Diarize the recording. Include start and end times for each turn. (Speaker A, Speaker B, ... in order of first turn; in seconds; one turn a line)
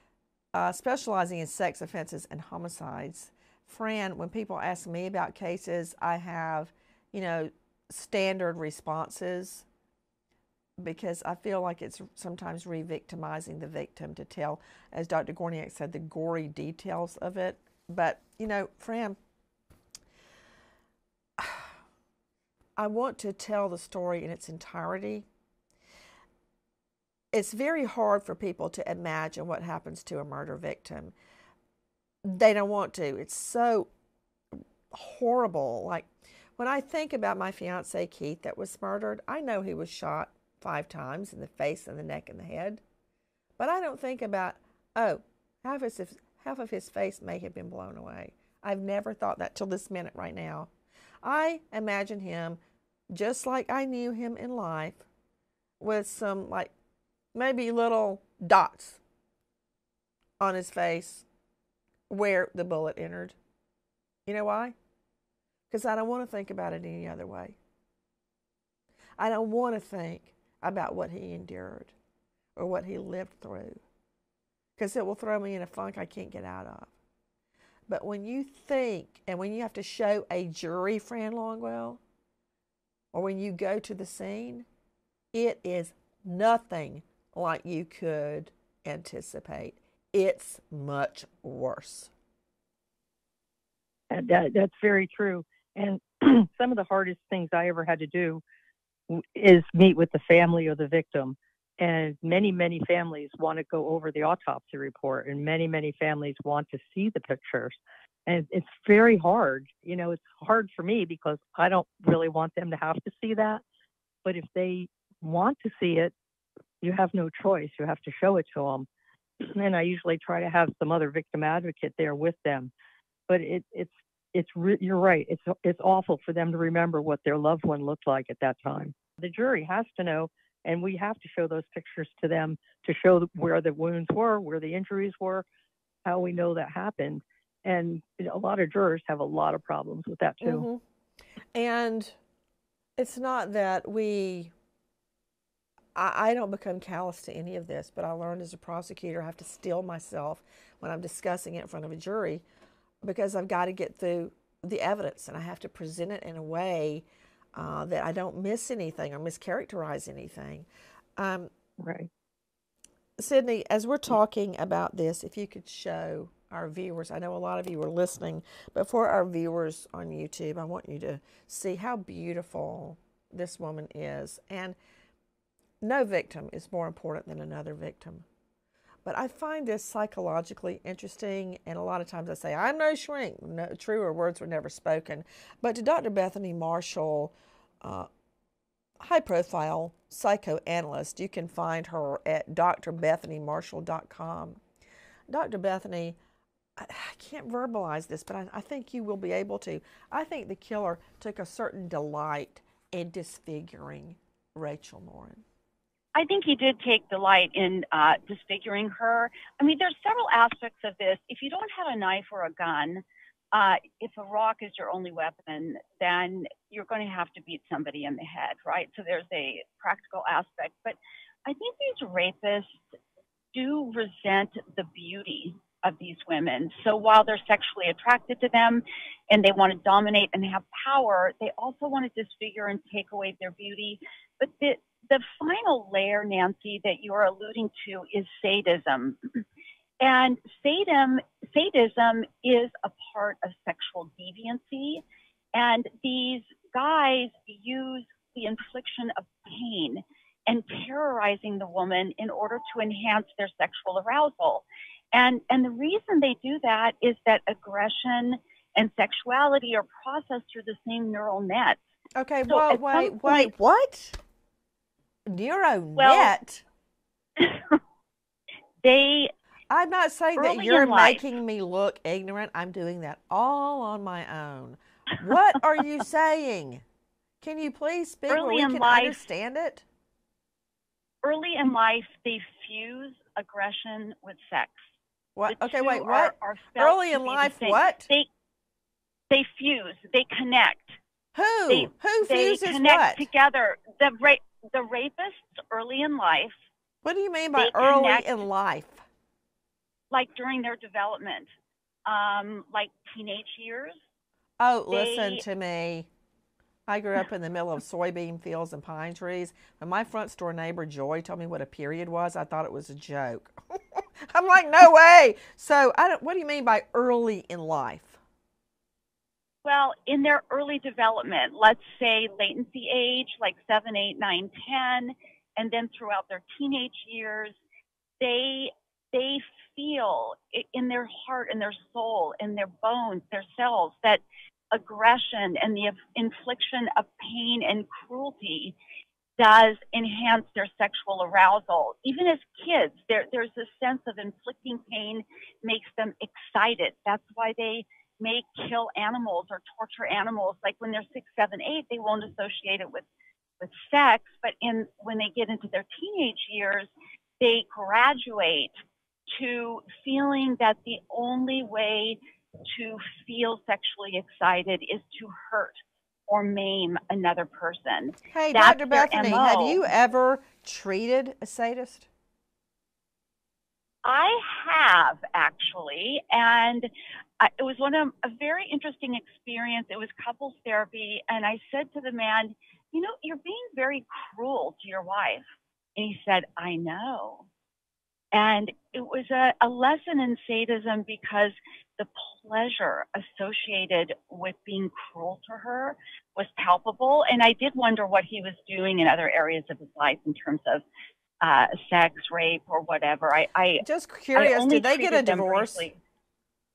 Speaker A: 0.5-9.7
Speaker A: 10.8-19.2
Speaker A: 21.4-21.7
Speaker A: 22.8-25.2
Speaker A: 27.3-31.1
Speaker A: 32.2-33.9
Speaker A: 34.9-42.8
Speaker A: 43.6-50.7
Speaker A: 51.2-52.6
Speaker A: 53.1-55.0
Speaker A: 55.8-56.7
Speaker A: 57.3-59.0
Speaker A: 60.4-61.2
Speaker A: 62.1-63.4
Speaker A: 64.2-64.7
Speaker A: 65.7-67.6
Speaker A: 69.2-71.9
Speaker A: 72.5-73.8
Speaker A: 74.8-76.9
Speaker A: 77.9-82.0
Speaker A: 83.1-84.7
Speaker A: 85.3-92.1
Speaker B: 94.1-98.4
Speaker B: 99.1-113.6
Speaker B: 114.2-116.1
Speaker B: 116.8-118.9
Speaker B: 119.4-122.7
Speaker B: 123.3-135.4
Speaker B: 136.0-140.7
Speaker A: 140.4-140.8
Speaker A: 141.5-142.1
Speaker A: 143.0-144.5
Speaker A: 145.9-152.4
Speaker A: 153.0-157.0
Speaker A: 157.6-160.7
Speaker A: 161.2-161.5
Speaker B: 161.8-162.1
Speaker A: 163.2-174.8
Speaker A: 175.8-178.2
Speaker A: 179.0-188.1
Speaker A: 189.0-194.6
Speaker A: 195.3-196.2
Speaker A: 196.8-205.4
Speaker C: 206.1-222.8
Speaker C: 223.5-239.2
Speaker C: 240.0-245.0
Speaker C: 245.5-261.8
Speaker A: 262.1-264.2
Speaker C: 262.5-263.5
Speaker A: 265.3-266.6
Speaker C: 266.0-266.3
Speaker C: 267.4-267.8
Speaker C: 268.8-269.3
Speaker A: 269.7-276.8
Speaker C: 270.4-271.2
Speaker A: 277.4-279.8
Speaker C: 278.3-279.2
Speaker C: 281.2-284.8
Speaker A: 285.4-288.1
Speaker C: 285.5-288.3
Speaker C: 289.3-291.0
Speaker A: 291.3-293.2
Speaker C: 291.7-296.5
Speaker A: 297.0-299.0
Speaker C: 297.6-298.3
Speaker C: 300.1-301.5
Speaker C: 302.1-304.0
Speaker A: 304.6-306.1
Speaker C: 304.9-305.4
Speaker A: 306.9-313.6
Speaker A: 314.2-318.2
Speaker C: 319.6-327.5
Speaker C: 328.2-338.8
Speaker C: 339.4-353.0
Speaker C: 353.6-358.7
Speaker C: 359.3-369.8
Speaker A: 368.3-372.1
Speaker C: 374.0-376.9
Speaker C: 377.4-385.4
Speaker C: 385.9-387.5
Speaker C: 388.3-400.8
Speaker C: 401.4-403.8
Speaker A: 403.8-405.9
Speaker C: 404.3-406.0